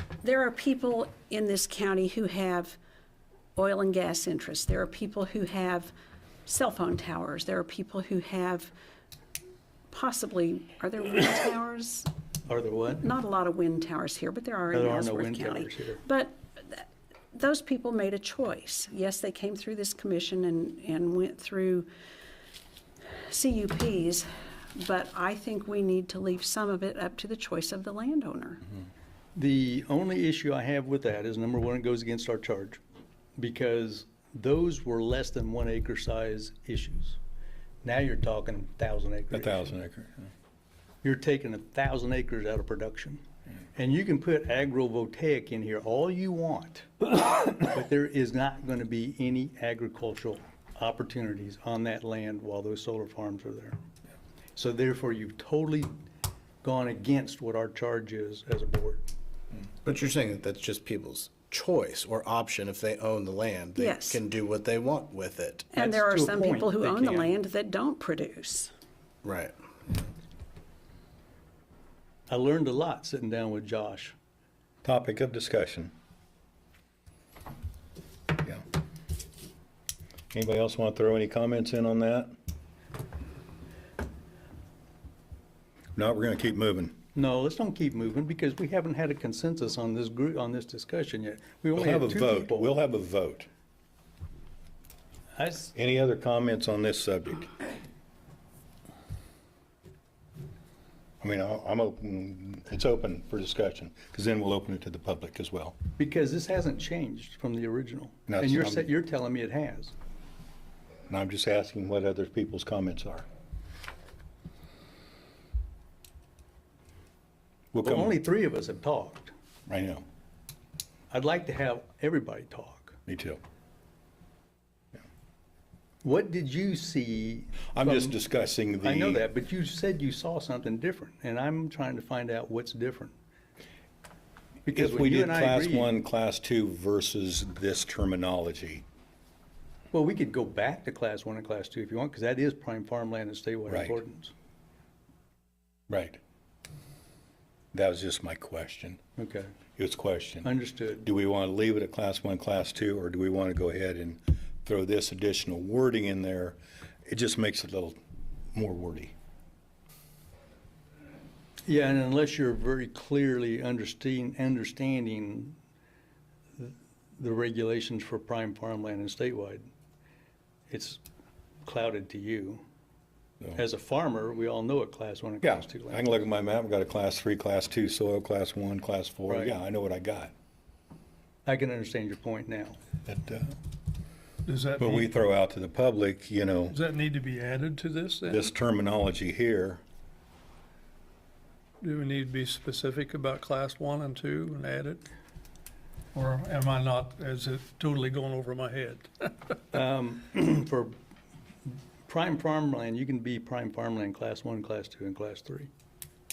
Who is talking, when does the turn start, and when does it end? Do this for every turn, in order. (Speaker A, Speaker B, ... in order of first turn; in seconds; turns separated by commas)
Speaker A: 0.2-2.8, Speaker A: 3.6-5.9, Speaker A: 6.5-8.7, Speaker A: 9.9-12.1, Speaker B: 12.5-13.1, Speaker A: 13.0-21.9, Speaker B: 14.7-16.0, Speaker A: 23.2-28.6, Speaker B: 29.4-32.8, Speaker B: 33.4-37.2, Speaker B: 37.8-39.7, Speaker C: 39.3-40.3, Speaker B: 41.0-43.2, Speaker B: 43.8-53.8, Speaker B: 54.6-55.9, Speaker B: 56.6-59.0, Speaker D: 59.8-65.7, Speaker A: 63.8-64.2, Speaker A: 65.7-68.7, Speaker B: 65.8-67.4, Speaker D: 69.2-70.0, Speaker B: 72.3-74.2, Speaker C: 74.8-75.9, Speaker C: 80.3-82.3, Speaker C: 86.0-87.0, Speaker B: 87.2-92.7, Speaker C: 91.8-93.5, Speaker B: 95.4-95.7, Speaker C: 95.8-97.5, Speaker C: 101.2-105.8, Speaker B: 106.0-109.9, Speaker C: 108.3-108.9, Speaker C: 111.1-113.3, Speaker C: 117.7-118.1, Speaker B: 117.8-119.3, Speaker C: 119.7-120.0, Speaker B: 121.1-123.0, Speaker C: 123.1-123.4, Speaker B: 126.0-128.2, Speaker C: 127.7-129.2, Speaker B: 128.8-133.2, Speaker B: 134.7-135.9, Speaker C: 134.7-138.8, Speaker B: 139.9-144.3, Speaker C: 143.7-144.0, Speaker C: 145.9-146.2, Speaker C: 147.7-149.0, Speaker B: 149.2-149.5, Speaker C: 149.8-150.5, Speaker B: 150.4-151.1, Speaker C: 151.0-158.0, Speaker C: 158.5-159.1, Speaker B: 161.7-165.6, Speaker B: 166.6-169.7, Speaker B: 170.7-171.0, Speaker B: 171.7-172.6, Speaker B: 173.5-176.2, Speaker C: 175.4-180.3, Speaker B: 179.3-179.6, Speaker B: 181.5-182.8, Speaker C: 183.1-183.6, Speaker E: 184.5-185.1, Speaker C: 184.8-186.8, Speaker E: 186.7-188.4, Speaker C: 188.3-189.8, Speaker E: 191.8-195.0, Speaker E: 196.1-199.6, Speaker B: 199.7-200.9, Speaker B: 202.1-205.7